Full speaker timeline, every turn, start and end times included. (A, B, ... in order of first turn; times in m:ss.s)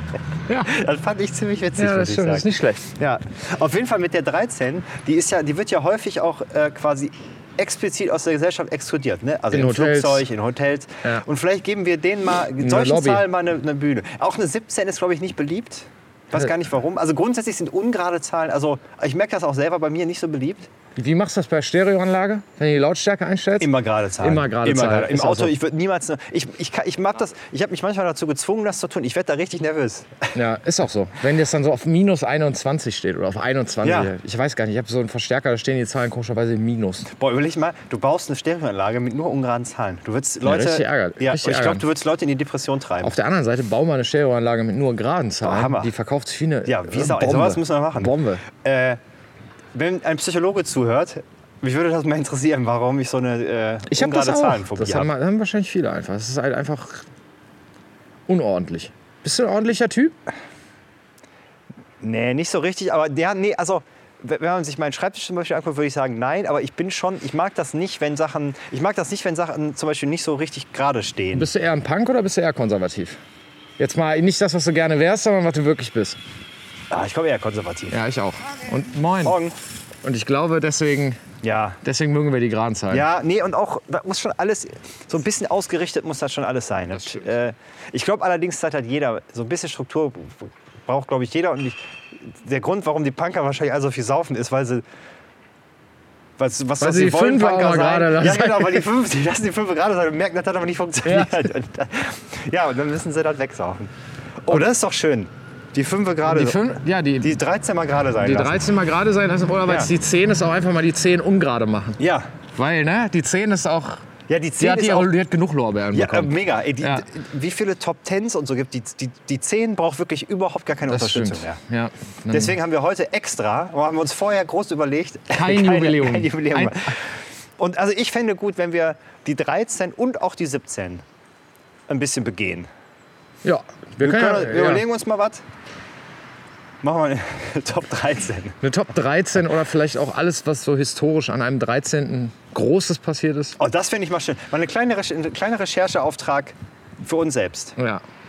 0:00.5-0:00.8 A
0:00.6-0:20.7 B
0:01.8-0:02.9 A
0:09.5-0:10.2 A
0:12.6-0:13.3 A
0:21.0-0:25.6 A
0:23.6-0:30.3 B
0:30.3-0:37.1 A
0:33.8-0:34.1 B
0:37.1-0:43.2 B
0:40.4-0:41.8 A
0:43.0-0:48.4 A
0:45.4-0:45.9 B
0:46.7-0:49.0 B
0:49.7-0:55.1 B
0:53.9-0:57.0 A
0:58.3-1:00.2 A
1:02.0-1:11.5 B
1:11.4-1:13.2 A
1:13.8-1:16.2 A
1:16.9-1:18.0 B
1:17.9-1:19.4 A
1:19.2-1:19.5 B
1:20.0-1:21.2 A
1:21.4-1:21.8 B
1:21.8-1:23.1 A
1:22.9-1:34.8 B
1:27.0-1:27.3 A
1:36.4-1:48.6 B
1:36.8-1:38.9 A
1:41.0-1:41.5 A
1:46.3-1:47.3 A
1:48.2-1:52.0 A
1:52.0-1:52.3 B
1:52.6-1:54.1 A
1:54.3-1:55.1 B
1:54.6-1:57.1 A
1:55.9-2:01.6 B
2:00.9-2:02.5 A
2:02.3-2:11.0 B
2:05.3-2:06.9 A
2:11.9-2:12.7 B
2:13.4-2:14.8 A
2:14.0-2:15.4 B
2:16.8-2:18.6 B
2:18.6-2:23.6 A
2:23.6-2:27.8 B
2:27.8-2:28.0 A